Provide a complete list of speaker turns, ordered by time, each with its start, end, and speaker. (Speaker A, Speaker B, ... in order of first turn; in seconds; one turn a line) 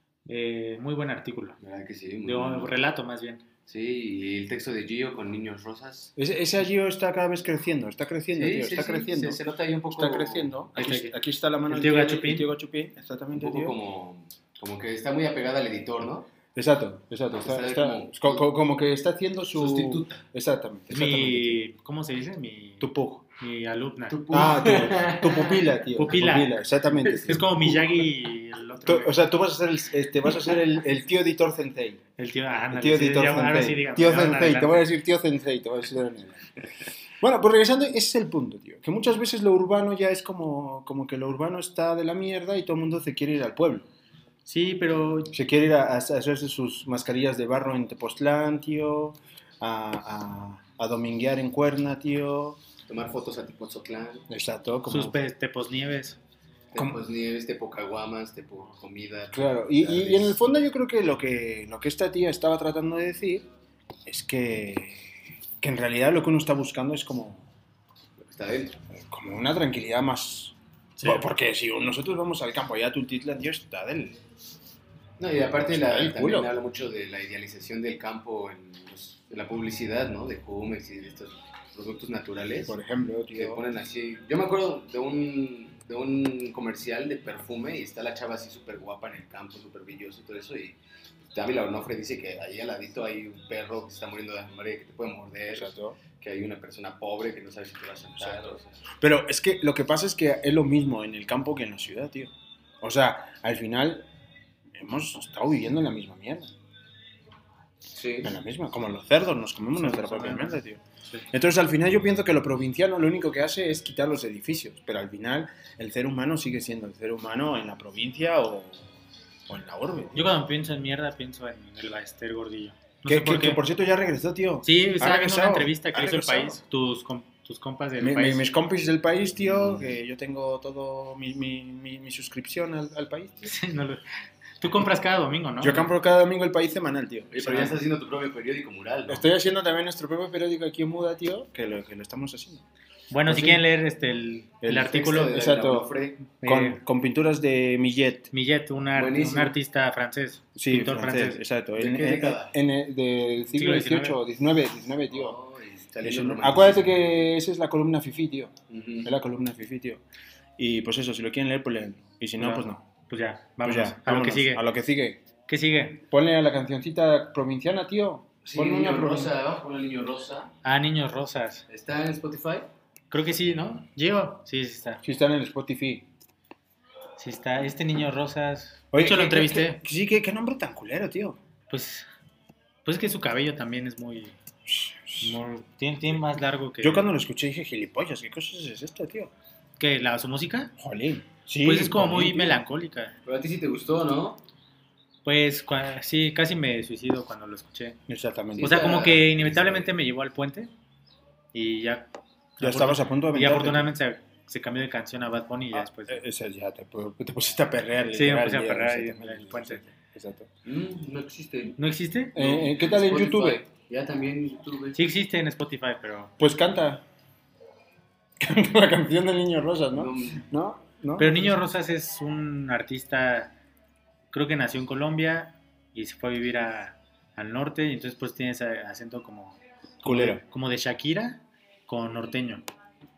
Speaker A: 0.3-1.6
Speaker B: 1.6-2.8
Speaker A: 2.2-3.4
Speaker B: 3.7-6.1
Speaker C: 6.2-13.8
Speaker B: 8.3-10.6
Speaker A: 10.7-11.1
Speaker A: 11.7-12.5
Speaker B: 13.3-16.3
Speaker C: 16.5-21.6
Speaker B: 17.3-18.4
Speaker B: 19.5-20.2
Speaker A: 20.9-24.2
Speaker C: 22.8-23.2
Speaker B: 24.1-25.9
Speaker C: 24.3-27.8
Speaker A: 26.0-26.6
Speaker A: 27.3-29.3
Speaker C: 28.8-32.0
Speaker A: 32.2-34.9
Speaker C: 32.7-36.5
Speaker C: 37.2-43.9
Speaker A: 44.5-45.3
Speaker C: 45.3-52.6
Speaker B: 52.9-54.2
Speaker C: 54.3-55.2
Speaker A: 54.9-56.2
Speaker B: 56.7-60.4
Speaker C: 59.3-63.5
Speaker C: 64.0-65.1
Speaker C: 65.6-67.5
Speaker B: 68.2-68.8
Speaker C: 68.9-74.2
Speaker A: 71.0-71.3
Speaker B: 75.2-82.8
Speaker C: 75.5-76.5
Speaker C: 82.6-83.6
Speaker B: 83.3-90.8
Speaker B: 91.3-98.8
Speaker C: 95.5-96.0
Speaker C: 99.0-104.0
Speaker C: 104.7-106.5
Speaker B: 107.9-108.3
Speaker C: 108.2-118.9
Speaker A: 109.7-111.2
Speaker C: 119.5-120.3
Speaker A: 120.1-123.6
Speaker C: 123.0-126.6
Speaker A: 124.6-128.4
Speaker C: 128.0-133.5
Speaker A: 133.4-134.0
Speaker A: 134.6-135.9
Speaker C: 135.6-137.8
Speaker B: 137.3-139.3
Speaker C: 139.1-142.6
Speaker A: 143.1-145.3
Speaker C: 143.2-143.7
Speaker C: 144.6-145.9
Speaker B: 144.8-146.2
Speaker A: 146.4-146.8
Speaker C: 146.4-148.3
Speaker A: 148.3-151.4
Speaker B: 148.9-149.6
Speaker C: 150.6-155.4
Speaker B: 151.8-152.6
Speaker A: 153.5-154.2
Speaker B: 155.1-157.1
Speaker C: 156.0-158.5
Speaker B: 158.7-159.1
Speaker C: 159.0-160.0
Speaker C: 160.6-162.8
Speaker A: 162.4-164.6
Speaker C: 163.6-165.2
Speaker A: 165.4-166.0
Speaker C: 166.1-169.4
Speaker B: 168.4-170.5
Speaker A: 170.6-171.7
Speaker B: 171.7-172.7
Speaker A: 173.1-175.0
Speaker C: 175.0-176.1
Speaker A: 177.2-179.8
Speaker C: 178.9-181.4
Speaker A: 181.7-182.1
Speaker A: 182.8-184.3
Speaker C: 184.7-185.4
Speaker A: 185.2-187.0
Speaker C: 186.8-189.3
Speaker A: 189.8-190.7
Speaker C: 190.8-192.6
Speaker A: 191.6-193.1
Speaker B: 193.2-194.4
Speaker A: 195.2-198.0
Speaker C: 198.1-199.6
Speaker B: 198.6-199.9
Speaker A: 198.6-200.7
Speaker A: 201.5-206.2
Speaker C: 202.6-203.9
Speaker C: 205.7-210.5
Speaker A: 208.0-209.9
Speaker B: 210.6-211.8
Speaker A: 211.8-212.4
Speaker C: 212.3-213.6
Speaker B: 212.3-215.0
Speaker A: 214.9-216.3
Speaker C: 216.4-217.0
Speaker C: 218.4-221.6
Speaker B: 219.9-220.4
Speaker A: 221.2-223.5
Speaker A: 224.3-232.6
Speaker C: 230.0-230.4